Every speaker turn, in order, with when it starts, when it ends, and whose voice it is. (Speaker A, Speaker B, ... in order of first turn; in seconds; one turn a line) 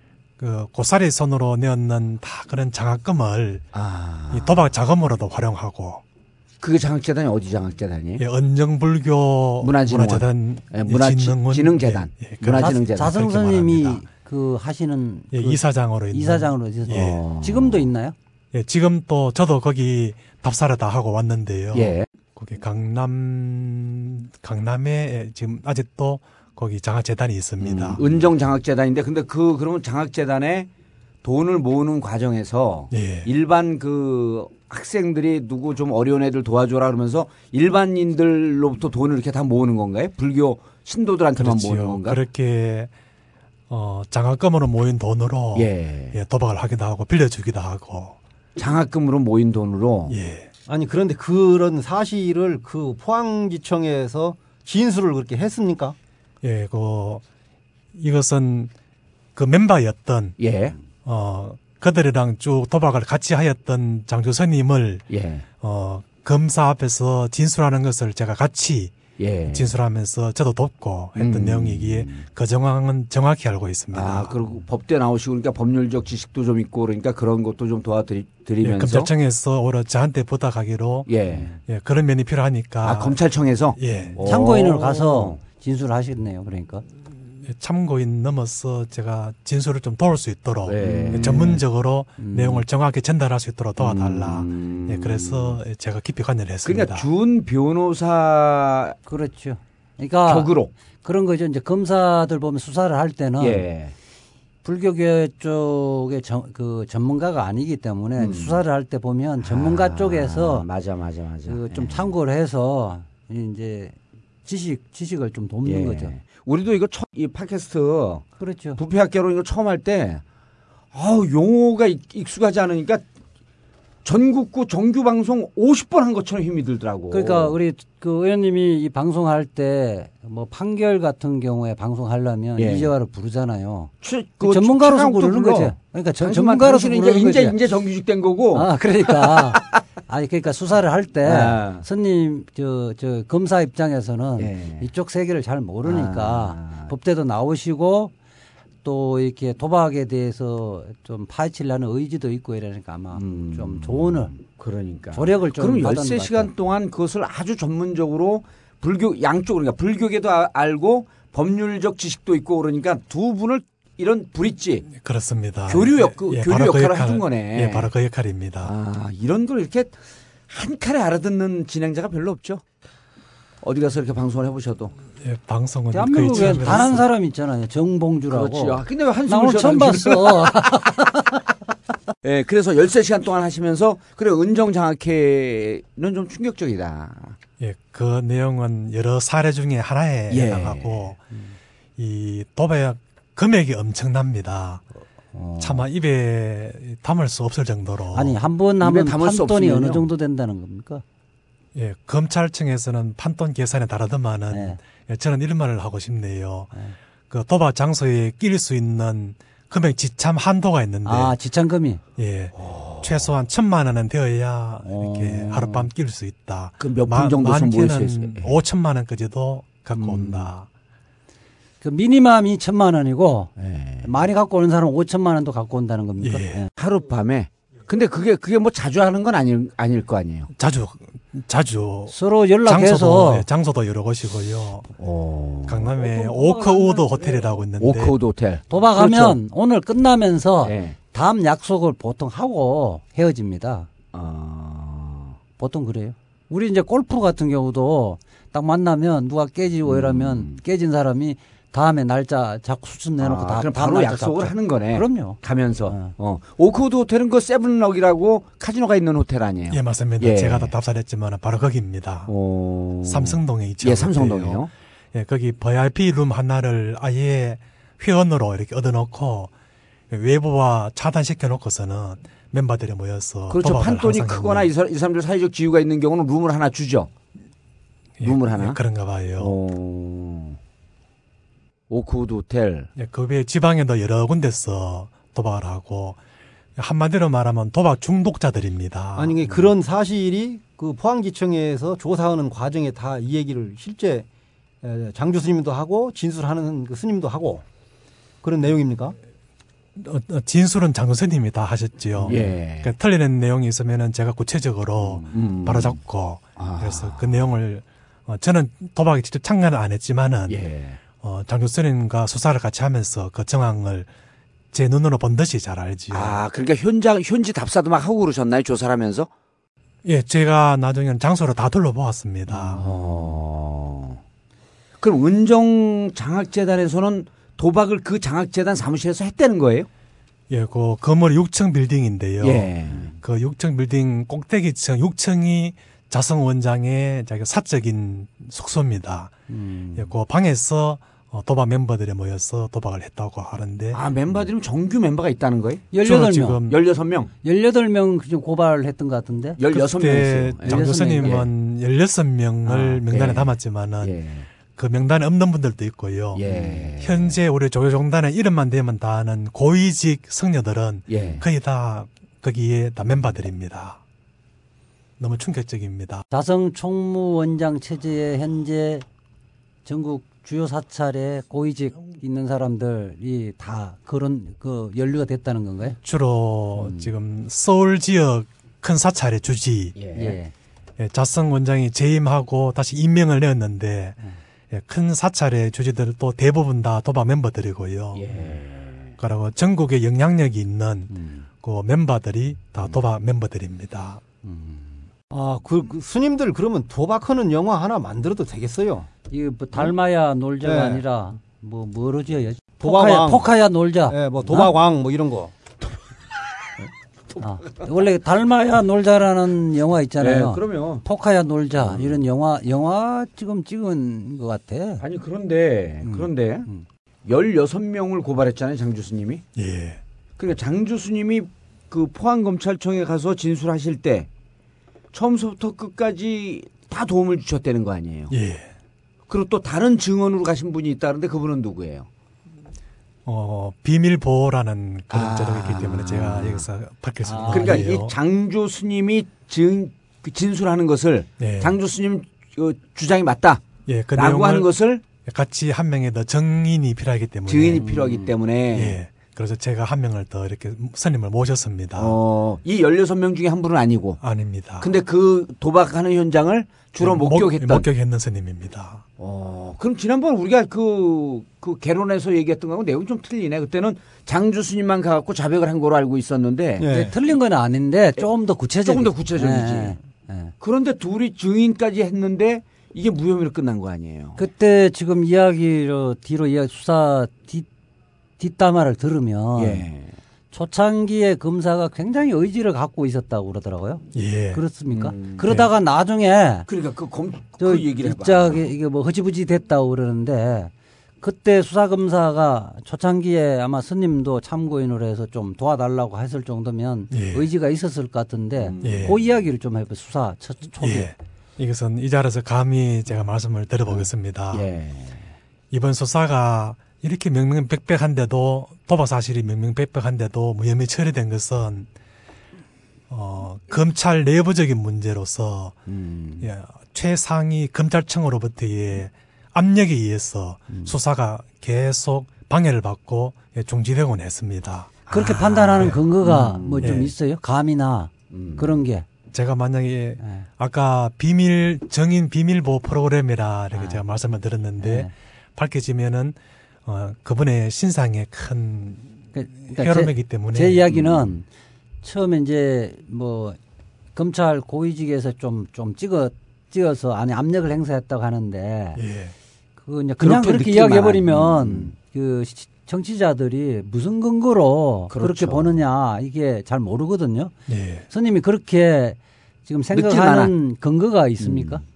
Speaker A: 0.4-3.6
Speaker B: 3.7-4.7
Speaker A: 4.3-6.0
Speaker B: 6.6-8.2
Speaker A: 8.2-14.0
Speaker B: 9.6-13.1
Speaker C: 12.6-18.1
Speaker A: 15.3-17.2
Speaker B: 16.9-17.9
Speaker A: 18.5-28.0
Speaker B: 21.7-22.1
Speaker B: 27.6-30.7
Speaker B: 31.2-42.2
Speaker A: 32.9-33.3
Speaker A: 41.4-42.9
Speaker A: 43.7-48.1
Speaker B: 45.5-46.2
Speaker B: 48.6-50.1
Speaker A: 50.1-50.5
Speaker D: 50.7-56.0
Speaker A: 56.4-57.2
Speaker A: 57.9-58.7
Speaker A: 59.3-60.4
Speaker B: 60.4-60.8
Speaker A: 61.0-65.0
Speaker B: 65.1-65.4
Speaker A: 65.6-69.0
Speaker B: 69.2-69.7
Speaker A: 69.5-74.3
Speaker B: 71.2-72.2
Speaker B: 73.9-79.1
Speaker A: 78.6-81.1
Speaker B: 81.1-81.5
Speaker A: 81.7-83.2
Speaker B: 82.8-85.4
Speaker A: 83.8-84.2
Speaker C: 84.2-86.8
Speaker A: 87.4-97.1
Speaker B: 90.7-91.6
Speaker C: 90.8-91.6
Speaker C: 92.2-92.6
Speaker B: 93.8-95.6
Speaker B: 96.6-99.0
Speaker C: 99.1-100.5
Speaker B: 100.2-100.7
Speaker C: 101.0-103.6
Speaker B: 103.4-103.9
Speaker C: 104.6-110.7
Speaker B: 108.2-108.6
Speaker B: 109.4-112.1
Speaker C: 111.5-116.1
Speaker B: 115.6-120.2
Speaker C: 118.4-118.8
Speaker B: 120.9-123.0
Speaker B: 124.0-127.5
Speaker C: 127.1-133.9
Speaker B: 132.6-132.9
Speaker B: 134.0-139.8
Speaker C: 134.4-137.6
Speaker C: 138.5-148.1
Speaker B: 141.2-141.8
Speaker B: 144.4-144.9
Speaker B: 145.8-146.9
Speaker C: 148.8-154.3
Speaker B: 153.1-164.9
Speaker C: 155.1-156.5
Speaker A: 164.9-168.7
Speaker B: 165.7-167.9
Speaker B: 168.6-169.9
Speaker B: 170.5-172.6
Speaker B: 173.6-174.9
Speaker A: 175.2-177.0
Speaker C: 175.9-181.4
Speaker B: 176.3-176.9
Speaker B: 178.3-181.0
Speaker B: 182.2-187.3
Speaker A: 187.6-191.2
Speaker B: 190.3-191.1
Speaker A: 192.0-194.8
Speaker C: 195.3-195.7
Speaker A: 195.6-198.4
Speaker C: 198.1-201.0
Speaker B: 198.8-200.1
Speaker A: 201.7-206.7
Speaker C: 204.5-204.8
Speaker A: 207.3-211.3
Speaker C: 211.0-212.0
Speaker A: 212.2-220.7
Speaker B: 212.6-213.3
Speaker C: 214.8-215.9
Speaker B: 216.8-218.6
Speaker B: 219.9-220.5
Speaker C: 221.8-223.5
Speaker B: 223.6-224.2
Speaker C: 224.0-226.7
Speaker A: 226.2-226.6
Speaker B: 226.8-230.5
Speaker A: 230.6-234.9
Speaker C: 232.1-233.5
Speaker B: 235.0-235.9
Speaker A: 235.7-238.1
Speaker C: 236.0-237.4
Speaker B: 237.8-239.4
Speaker C: 238.7-243.9
Speaker B: 240.6-240.9
Speaker B: 244.1-245.3
Speaker C: 245.6-256.1
Speaker B: 249.8-250.6
Speaker B: 253.2-260.7
Speaker A: 259.7-262.3
Speaker B: 262.3-264.7
Speaker A: 263.1-269.5
Speaker A: 270.1-274.7
Speaker B: 273.5-277.1
Speaker A: 278.2-279.5
Speaker B: 278.2-278.8
Speaker B: 279.4-280.6
Speaker B: 281.9-282.9
Speaker A: 282.9-286.2
Speaker A: 286.8-289.4
Speaker D: 289.1-294.3
Speaker D: 294.8-297.6
Speaker D: 298.4-299.1
Speaker A: 300.0-310.6
Speaker B: 302.2-302.9
Speaker B: 305.0-306.0
Speaker B: 306.6-307.4
Speaker B: 310.5-311.0
Speaker A: 311.2-314.1
Speaker A: 314.7-316.4
Speaker B: 316.1-319.3
Speaker A: 320.0-322.8
Speaker B: 322.5-324.2
Speaker B: 325.0-329.9
Speaker A: 330.5-339.3
Speaker B: 332.4-333.1
Speaker C: 339.5-340.1
Speaker A: 339.9-344.0
Speaker B: 343.9-345.9
Speaker C: 345.9-346.6
Speaker A: 346.0-346.8
Speaker B: 346.7-347.3
Speaker C: 347.4-349.6
Speaker B: 349.6-351.5
Speaker A: 349.7-354.1
Speaker C: 350.6-351.4
Speaker B: 352.7-354.5
Speaker A: 354.7-356.4
Speaker B: 356.3-357.4
Speaker A: 357.0-364.0
Speaker B: 361.1-361.4
Speaker A: 365.2-366.2
Speaker C: 366.3-369.0
Speaker C: 369.8-376.0
Speaker A: 376.0-379.9
Speaker C: 376.7-377.1
Speaker B: 379.9-380.4
Speaker C: 380.1-380.5
Speaker A: 381.0-384.2
Speaker A: 384.7-388.2
Speaker B: 388.1-389.1
Speaker A: 389.2-394.2
Speaker C: 391.1-391.4
Speaker C: 394.4-395.0
Speaker D: 395.3-399.1
Speaker C: 399.3-404.7
Speaker D: 400.6-401.0
Speaker D: 402.8-403.5
Speaker D: 404.1-405.5
Speaker C: 407.4-415.0
Speaker B: 410.2-411.0
Speaker B: 411.8-412.2
Speaker B: 415.0-416.7
Speaker C: 416.0-416.8
Speaker B: 417.2-419.4
Speaker A: 419.6-420.0
Speaker B: 420.4-424.3
Speaker B: 425.1-428.3
Speaker A: 428.3-428.7
Speaker B: 429.3-432.1
Speaker A: 433.2-438.1
Speaker B: 435.1-436.6
Speaker C: 437.2-437.9
Speaker B: 437.5-443.6
Speaker A: 441.4-441.7
Speaker A: 443.9-444.7
Speaker B: 444.1-445.0
Speaker A: 445.2-447.9
Speaker B: 447.5-449.0
Speaker C: 447.8-448.3
Speaker A: 448.7-452.2
Speaker B: 451.9-454.2
Speaker A: 454.2-454.9
Speaker B: 454.8-457.9
Speaker A: 457.0-459.0
Speaker B: 459.2-467.1
Speaker D: 466.8-467.1
Speaker C: 466.8-470.5
Speaker B: 468.8-470.0
Speaker B: 470.6-474.4
Speaker C: 474.4-477.6
Speaker C: 478.4-479.8
Speaker B: 479.6-480.1
Speaker C: 480.5-486.7
Speaker A: 484.1-484.6
Speaker B: 484.9-485.5
Speaker B: 486.7-488.6
Speaker C: 487.6-501.1
Speaker A: 497.1-497.5
Speaker B: 498.6-499.2
Speaker A: 498.8-499.1
Speaker A: 500.8-504.6
Speaker B: 503.9-505.3
Speaker A: 505.7-511.9
Speaker A: 513.1-515.8
Speaker B: 515.9-516.5
Speaker A: 516.4-524.9
Speaker B: 525.1-527.0
Speaker C: 525.1-529.0
Speaker A: 526.8-527.1
Speaker B: 528.3-528.8
Speaker A: 529.3-539.1
Speaker C: 530.2-530.5
Speaker C: 533.7-534.0
Speaker C: 534.8-535.1
Speaker C: 539.3-541.5
Speaker A: 539.6-540.9
Speaker C: 542.0-543.6
Speaker C: 544.1-549.0
Speaker A: 549.0-549.3
Speaker C: 549.8-557.5
Speaker B: 550.2-551.9
Speaker B: 555.1-555.8
Speaker A: 557.7-558.1
Speaker C: 558.1-561.8
Speaker B: 559.9-560.5
Speaker B: 561.4-561.8